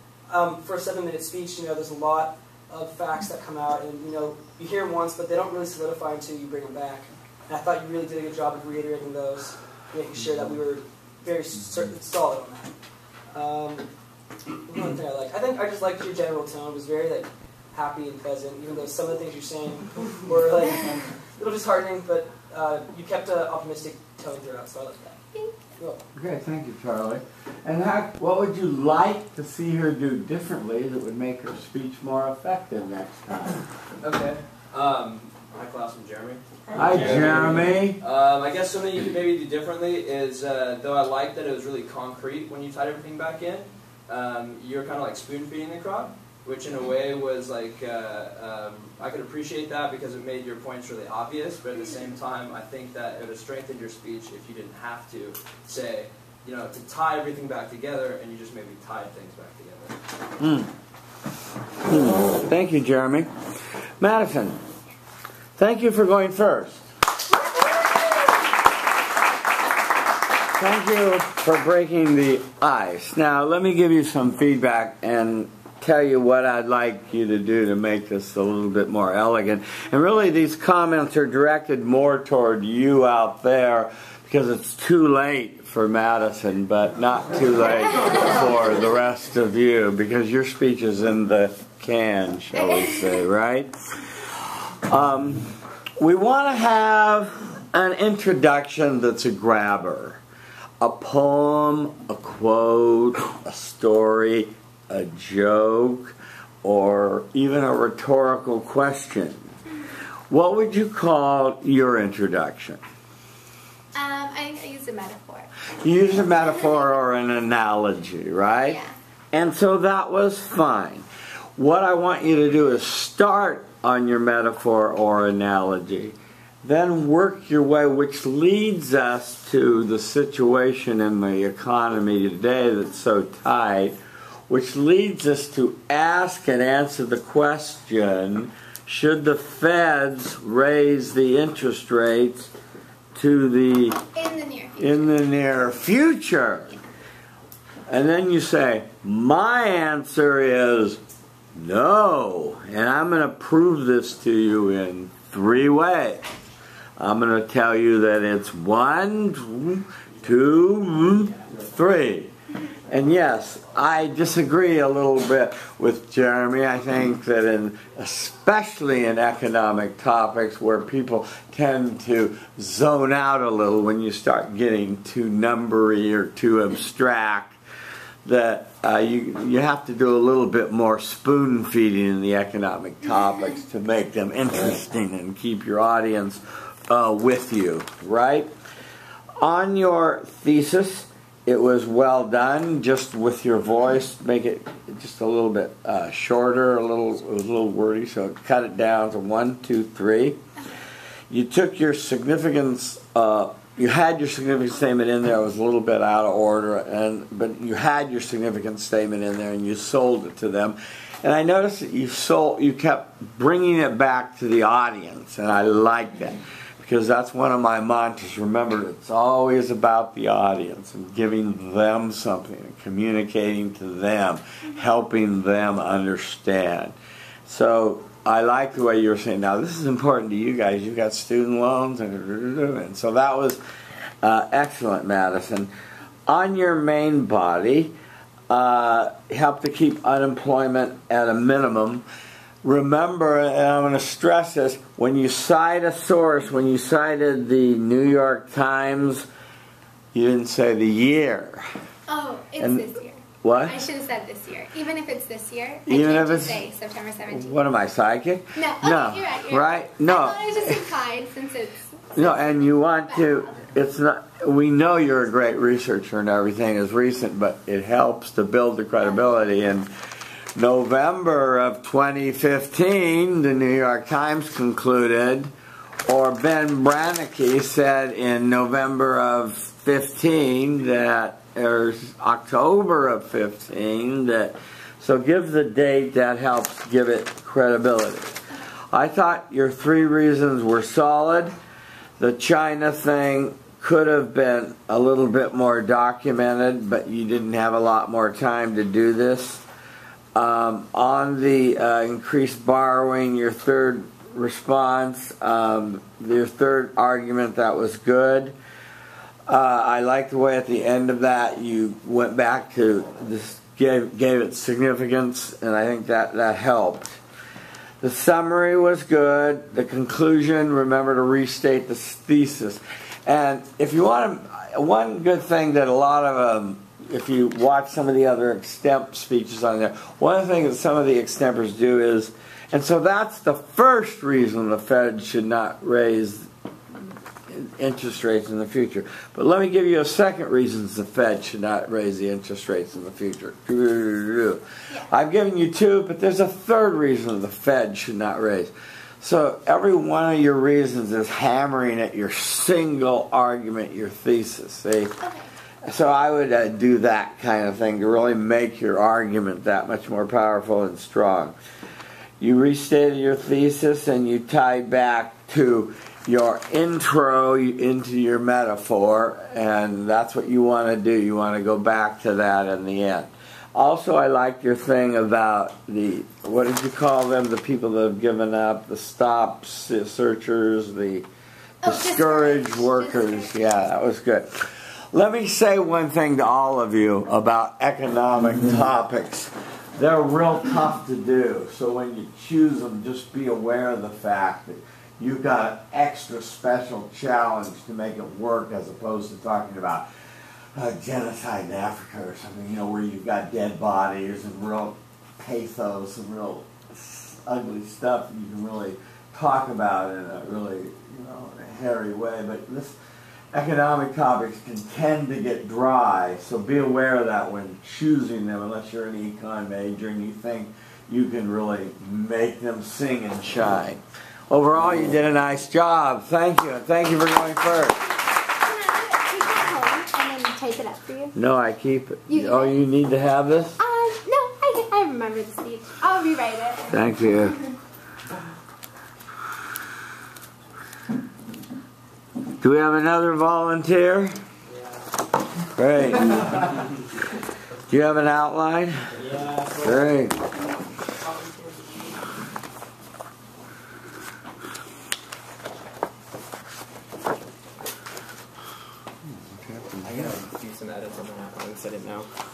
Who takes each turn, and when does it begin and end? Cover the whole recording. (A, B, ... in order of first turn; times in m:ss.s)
0:00.3-0:12.7 A
0:13.3-0:13.9 A
0:14.7-0:25.2 A
0:25.8-0:26.0 A
0:26.1-0:33.6 B
0:34.0-1:00.0 C
0:36.8-0:38.0 B
1:00.4-1:00.7 B
1:01.8-1:03.3 B
1:04.0-1:04.6 B
1:05.6-1:06.9 B
1:10.6-1:40.2 B
1:32.7-1:33.1 D
1:40.8-1:49.5 B
1:50.3-1:52.8 B
1:54.0-1:55.5 D
1:55.8-1:58.8 B
1:58.7-1:58.9 D
1:59.3-2:14.0 B
2:14.5-2:22.5 B
2:23.2-2:24.0 B
2:24.2-2:25.1 D
2:24.8-2:26.8 B
2:27.9-2:31.0 B
2:31.5-2:36.2 B
2:37.0-2:42.3 B
2:42.9-2:57.6 B
2:58.2-3:08.5 B
3:09.4-3:20.4 B
3:21.3-3:47.0 B
3:47.5-3:53.6 B
3:54.2-3:55.7 B
3:56.3-3:57.9 B
3:58.5-4:02.0 B
4:02.6-4:09.3 B
4:10.1-4:11.6 B
4:12.1-4:17.6 D
4:12.6-4:12.9 B
4:13.4-4:13.8 B
4:15.9-4:16.6 B
4:17.3-4:20.8 B
4:18.6-4:23.6 D
4:22.2-4:29.9 B
4:30.6-4:35.5 B
4:36.1-4:48.4 B
4:48.9-4:51.5 B
4:52.2-4:59.6 B
5:00.4-5:08.6 B
5:09.5-5:17.2 B
5:18.0-5:36.5 B
5:37.5-5:55.1 B
5:55.2-5:55.5 D
5:55.8-6:01.6 B
6:02.4-6:21.3 B
6:21.8-6:23.6 D
6:21.8-6:40.1 B
6:40.8-6:53.0 B
6:53.5-7:08.0 B
7:08.6-7:11.4 D
7:11.4-7:13.8 B
7:12.3-7:12.8 D
7:13.8-7:16.9 D
7:16.9-7:17.6 B
7:22.6-7:24.4 B
7:25.8-7:26.6 B
7:27.9-7:29.0 B
7:29.8-7:30.4 B
7:39.3-7:40.2 B
7:40.1-7:42.3 E